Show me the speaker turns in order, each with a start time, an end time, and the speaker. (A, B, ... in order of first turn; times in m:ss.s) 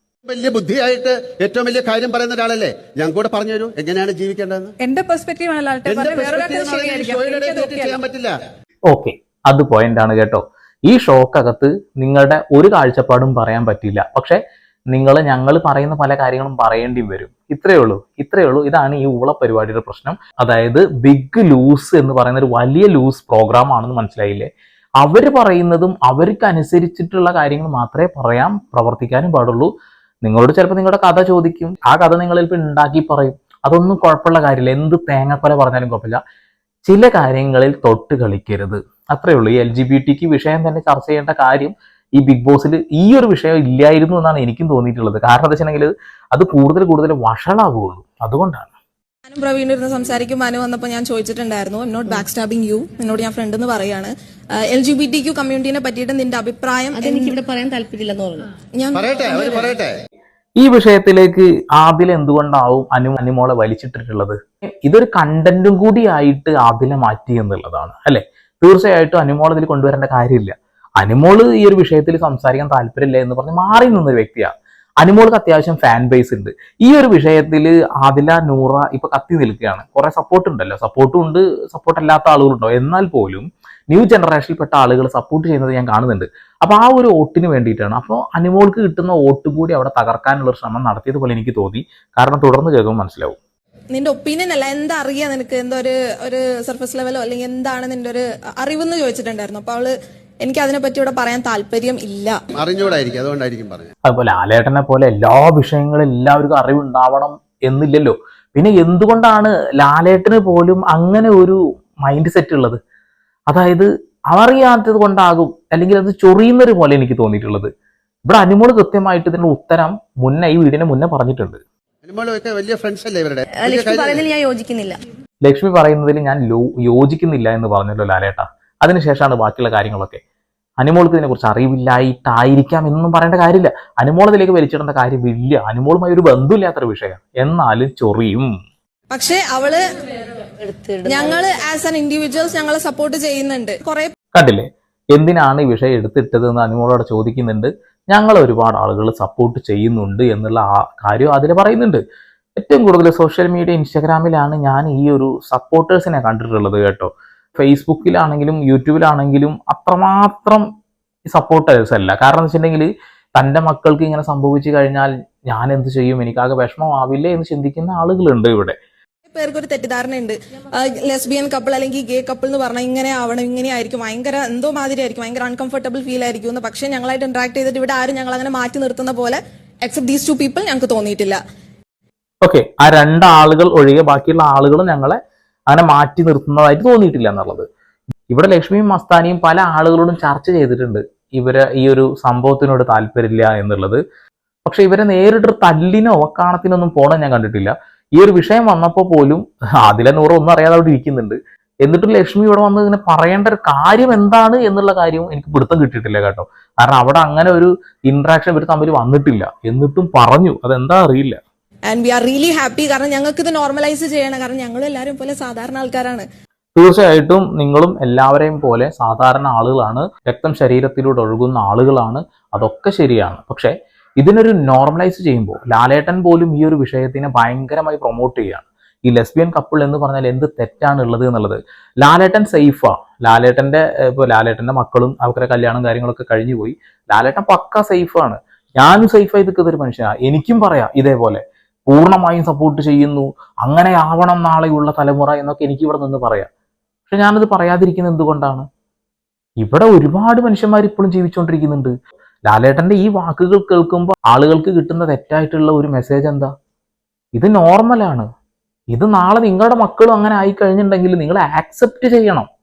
0:00.2-0:04.7 A
0:04.8-0:08.0 B
0:05.8-0:08.4 A
0:08.9-0:14.4 C
0:14.9-0:24.5 C
0:25.0-0:29.7 C
0:30.2-0:36.2 C
0:36.9-0:48.7 C
0:49.3-0:54.1 D
0:54.7-0:57.4 D
0:56.9-0:58.5 E
0:58.8-0:59.1 D
0:58.9-0:59.9 A
0:59.0-0:59.6 E
1:00.6-1:33.4 C
1:33.9-1:39.9 D
1:40.4-1:42.4 D
1:42.5-1:43.9 A
1:44.1-1:52.8 C
1:53.5-1:57.7 C
1:58.2-2:01.6 C
2:02.0-2:04.3 A
2:03.5-2:05.0 E
2:05.4-2:10.2 C
2:10.8-2:18.5 C
2:19.1-2:19.8 D
2:20.6-2:21.6 E
2:21.0-2:24.1 D
2:24.3-2:32.0 C
2:32.6-2:40.6 C
2:41.3-2:48.8 C
2:49.3-3:01.4 D
3:02.4-3:05.2 C
3:05.7-3:07.7 C
3:08.3-3:14.0 C
3:14.6-3:31.4 C
3:31.9-3:36.2 D
3:36.8-4:06.5 C
4:07.1-4:08.6 C
4:09.6-4:11.9 C
4:12.5-4:16.5 C
4:17.4-4:18.3 C
4:18.9-4:22.5 C